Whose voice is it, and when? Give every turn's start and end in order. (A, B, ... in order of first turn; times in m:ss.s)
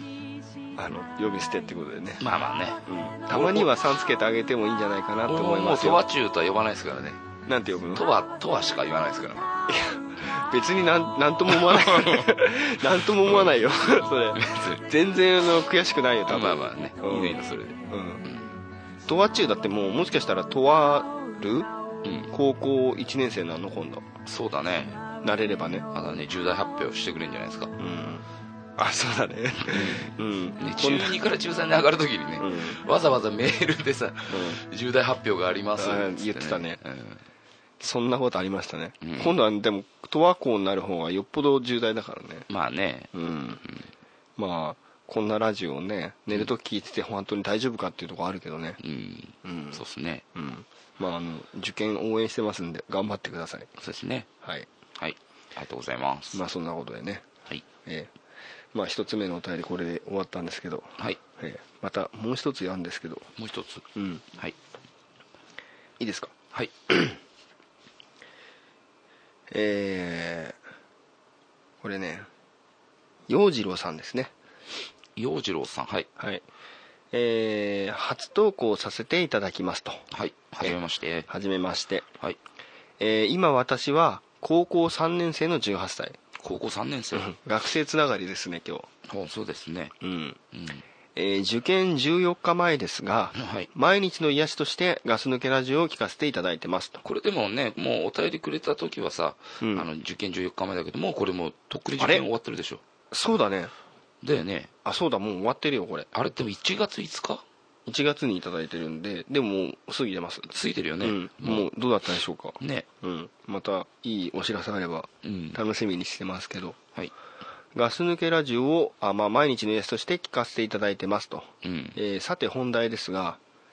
0:00.7-0:02.2 A
0:02.2-0:03.7 B
0:02.8-0:06.0 A
0:05.2-0:07.2 B
0:07.4-0:08.0 A
0:07.9-0:09.5 B
0:09.7-0:18.2 A
0:11.5-0:12.4 B
0:13.2-0:14.8 B
0:16.3-0:18.5 B
0:19.0-0:21.7 A
0:22.0-0:22.3 B
0:22.3-0:24.0 A
0:24.2-0:25.0 B
0:25.2-0:25.8 A
0:25.9-0:27.7 B
0:27.8-0:28.2 A
0:28.8-0:31.2 A
0:29.6-0:37.2 B
0:32.4-0:32.8 A
0:34.3-0:34.6 A
0:35.8-0:36.8 A
0:37.8-0:42.4 A
0:39.0-0:39.3 B
0:42.5-0:43.1 B
0:43.1-0:43.6 A
0:43.6-0:43.9 B
0:44.4-0:48.8 A
0:48.8-0:50.2 B
0:49.4-0:49.8 A
0:50.3-0:53.7 A
0:53.8-0:54.3 B
0:55.0-0:56.4 B
0:56.3-0:57.2 A
0:57.8-0:58.1 A
0:58.7-1:03.3 A
1:03.4-1:04.5 B
1:03.9-1:04.2 A
1:06.0-1:06.3 A
1:09.5-1:10.6 A
1:11.8-1:12.3 A
1:13.3-1:14.3 A
1:15.2-1:16.1 B
1:16.2-1:16.4 A
1:17.1-1:20.0 A
1:20.1-1:21.3 B
1:21.3-1:22.1 A
1:23.0-1:26.2 A
1:26.4-1:27.3 B
1:27.1-1:28.9 A
1:29.0-1:29.9 B
1:30.0-1:30.4 A
1:30.5-1:30.8 B
1:31.2-1:37.0 A
1:33.3-1:33.7 B
1:37.0-1:42.8 B
1:39.6-1:39.9 A
1:42.0-1:42.3 A
1:43.1-1:43.7 A
1:44.2-1:44.7 B
1:44.8-1:46.1 A
1:46.1-1:47.4 B
1:47.8-1:56.8 A
1:50.5-1:51.6 B
1:52.6-1:52.8 B
1:55.2-1:55.6 B
1:57.7-2:03.4 A
2:01.6-2:02.0 B